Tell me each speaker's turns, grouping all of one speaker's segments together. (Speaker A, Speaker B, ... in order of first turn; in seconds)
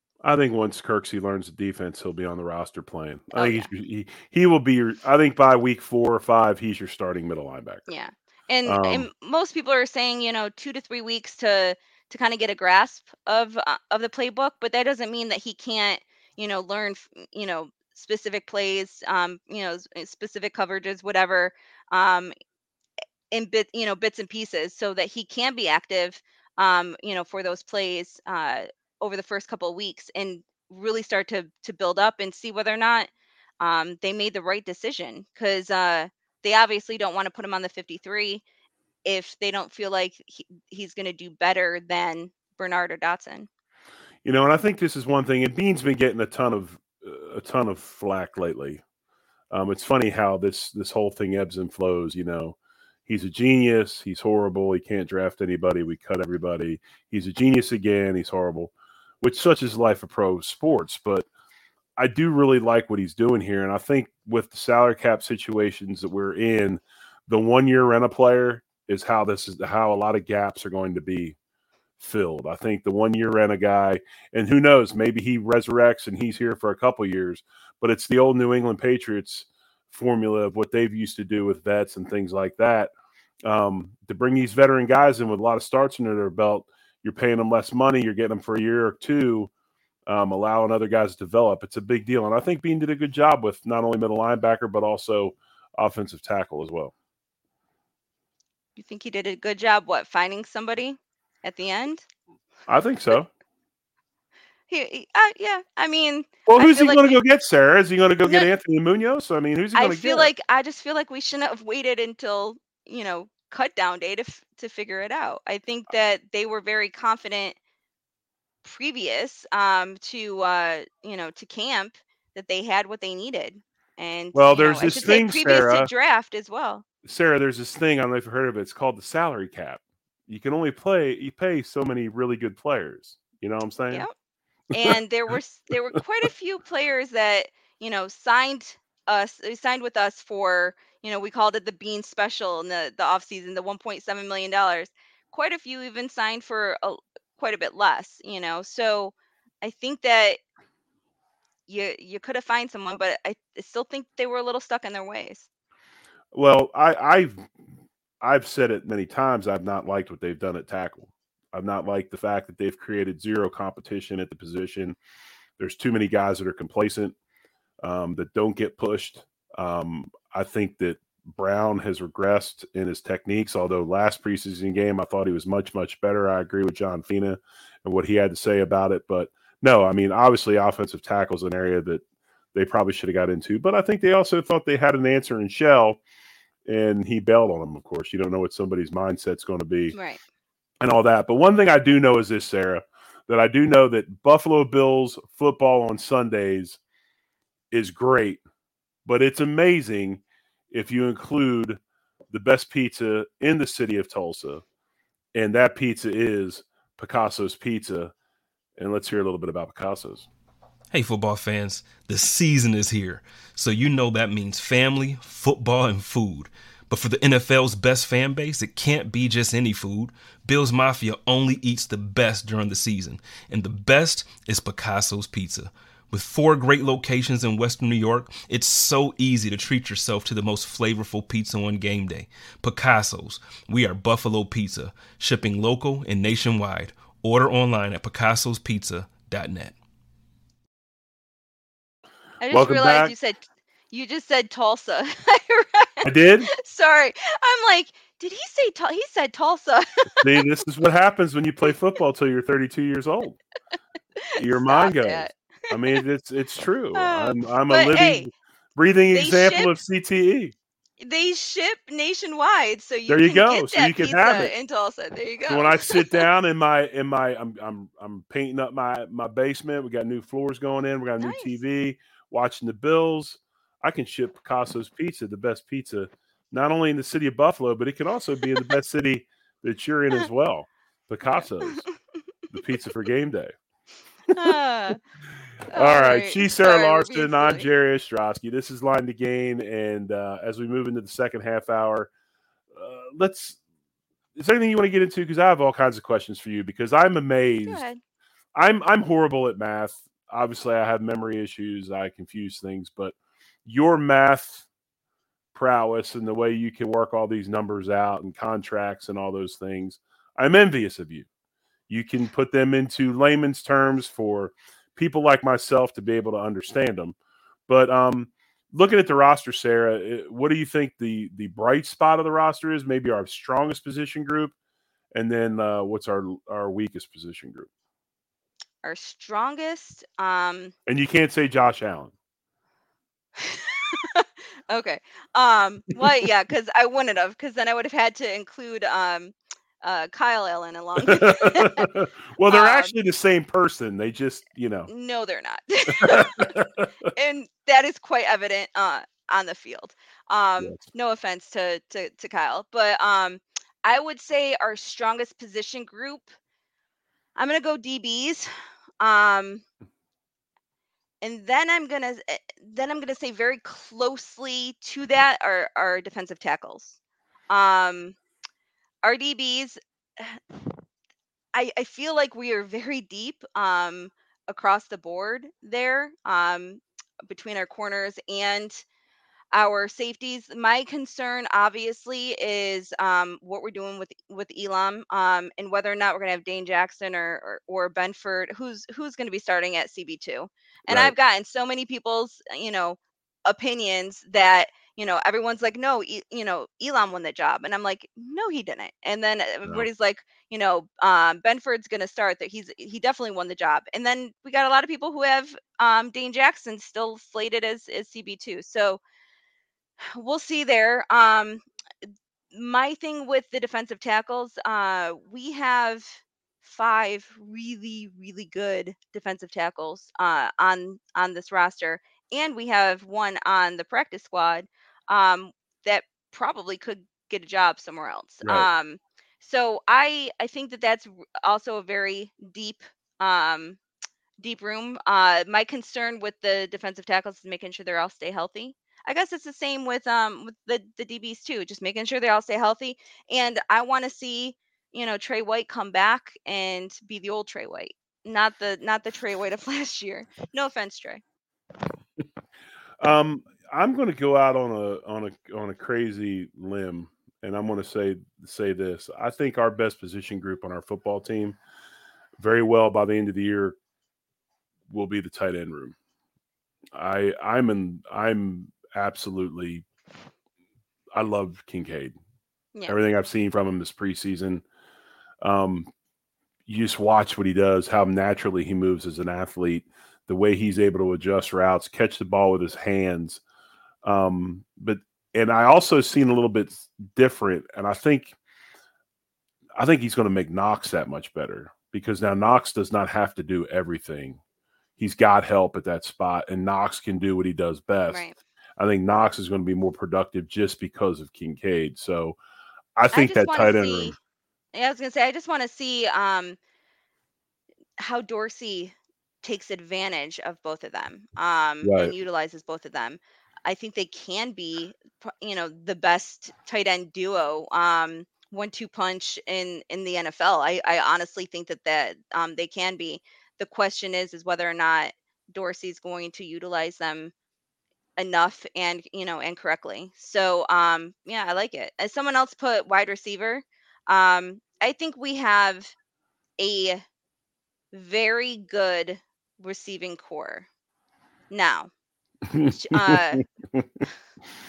Speaker A: 0.2-7.9, 8.7-9.1, 44.2-48.8, 49.5-61.3, 62.0-71.3, 72.0-82.9, 83.4-89.5, 90.0-96.9, 102.7-103.3, 106.5-110.3, 124.3-125.9, 127.0-134.1, 156.3-157.5, 158.2-165.0, 165.6-167.1, 167.8-182.0, 182.5-186.0, 186.7-189.9, 190.8-196.8, 197.7-198.4, 199.1-204.6, 205.3-208.1, 208.8-210.3, 242.5-243.1, 246.0-246.5, 250.2-253.4, 254.3-260.5, 263.1-264.5, 265.5-281.8, 282.5-283.5, 284.3-284.5, 285.7-292.1, 292.7-293.6, 294.4-297.8, 298.5-304.6, 305.5-311.3, 311.9-317.1, 317.7-324.5, 325.1-327.7, 330.9-332.1, 341.0-344.9, 346.0-346.9, 390.9-391.1, 428.4-428.7, 453.0-461.6, 462.4-463.8, 464.9-465.9, 466.9-469.8, 471.1-472.1, 472.9-474.6, 475.4-475.9, 476.7-483.4, 484.0-488.3, 489.8-494.4, 495.0-498.2, 498.8-502.4, 502.9-504.1, 511.8-512.1, 542.5-544.0
Speaker B: 3.3-3.7, 7.9-22.3, 23.3-33.1, 33.6-38.4, 39.0-43.5, 98.8-102.0, 104.7-107.2, 108.2-108.5, 109.7-117.6, 118.6-126.8, 134.7-150.4, 151.7-155.5, 189.9-190.2, 242.4-250.6, 254.2-256.0, 256.9-258.3, 259.1-259.7, 261.0-266.2, 271.2-271.5, 281.6-281.9, 284.3-285.0, 285.7-287.6, 297.6-298.0, 328.8-330.7, 333.4-341.9, 342.4-342.9, 344.9-346.6, 347.1-356.3, 357.4-359.6, 361.2-367.0, 367.5-368.1, 369.0-370.4, 371.5-378.8, 379.5-409.0, 410.0-411.6, 412.5-433.8, 434.4-451.2, 498.1-498.4, 503.1-504.1, 504.7-506.6, 508.0-527.3, 528.2-535.9, 536.6-537.0, 537.9-540.7, 541.5-541.9, 542.6-543.4
Speaker C: 210.9-239.7